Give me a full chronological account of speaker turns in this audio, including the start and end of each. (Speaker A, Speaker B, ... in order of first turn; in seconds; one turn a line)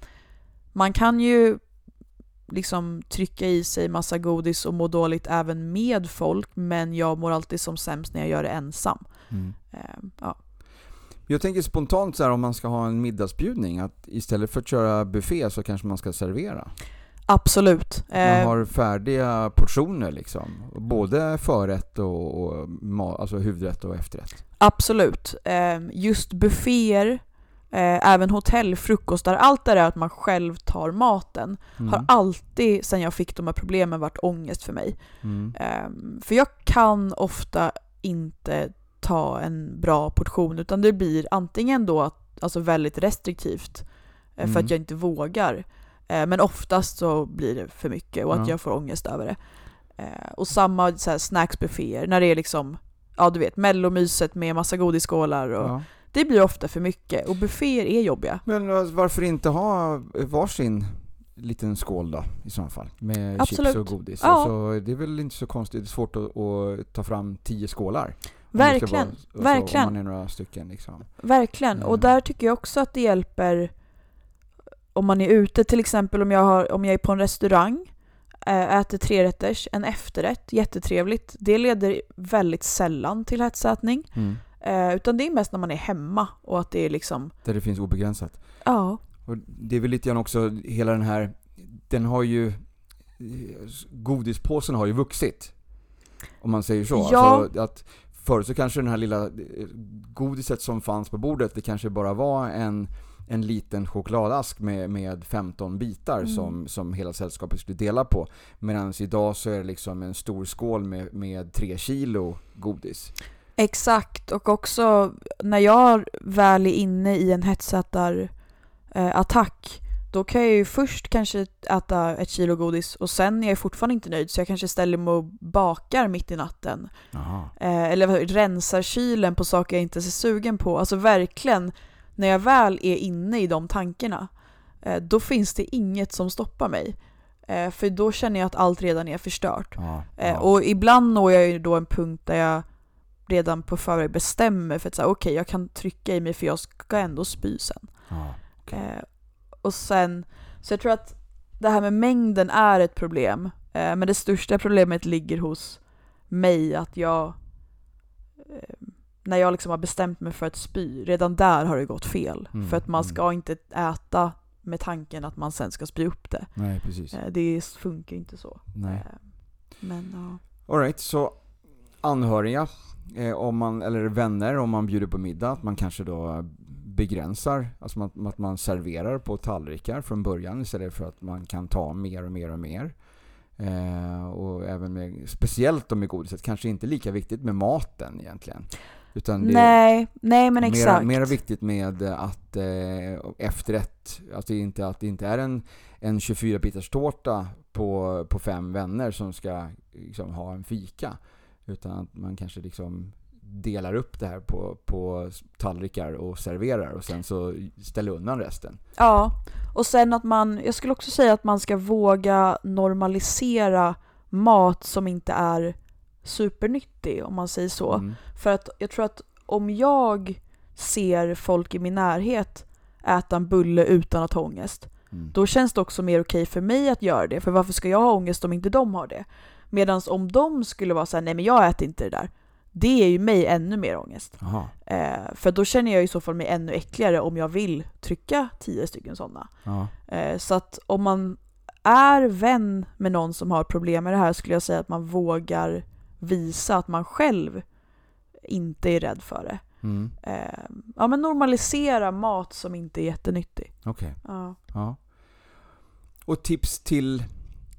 Speaker A: 0.7-1.7
Speaker A: 2.5-10.4
Speaker B: 9.3-9.6
Speaker B: 11.3-16.7
Speaker A: 17.3-18.6
Speaker B: 18.2-24.4
Speaker A: 24.6-35.0
Speaker B: 31.8-32.1
Speaker B: 35.2-35.5
Speaker A: 35.5-49.4
Speaker B: 44.4-44.7
Speaker A: 50.0-58.4
Speaker B: 55.6-55.9
Speaker B: 58.5-71.1
Speaker A: 63.4-64.5
Speaker A: 68.5-70.0
Speaker A: 71.2-73.7
Speaker B: 71.8-72.1
Speaker A: 74.9-77.9
Speaker A: 78.4-87.3
Speaker B: 84.1-84.4
Speaker B: 87.4-88.6
Speaker A: 88.6-89.0
Speaker B: 89.2-95.5
Speaker B: 96.4-113.1
Speaker A: 96.9-97.5
Speaker A: 106.2-106.5
Speaker A: 113.6-118.3
Speaker A: 118.9-126.9
Speaker B: 127.1-127.5
Speaker A: 127.6-134.3
Speaker A: 134.8-137.0
Speaker A: 137.5-142.7
Speaker B: 139.8-140.5
Speaker A: 143.3-148.1
Speaker B: 148.1-148.8
Speaker A: 148.6-157.4
Speaker A: 158.4-166.6
Speaker B: 162.5-163.2
Speaker B: 166.6-167.2
Speaker A: 167.1-170.4
Speaker B: 168.8-169.1
Speaker B: 170.7-182.9
Speaker B: 183.6-189.8
Speaker A: 189.4-191.4
Speaker B: 190.6-208.8
Speaker A: 209.0-239.5
Speaker B: 217.9-218.2
Speaker B: 234.4-234.7
Speaker B: 239.7-239.9
Speaker A: 240.1-247.7
Speaker A: 248.4-249.6
Speaker B: 249.8-250.1
Speaker A: 250.2-254.6
Speaker B: 253.8-255.5
Speaker B: 256.2-257.3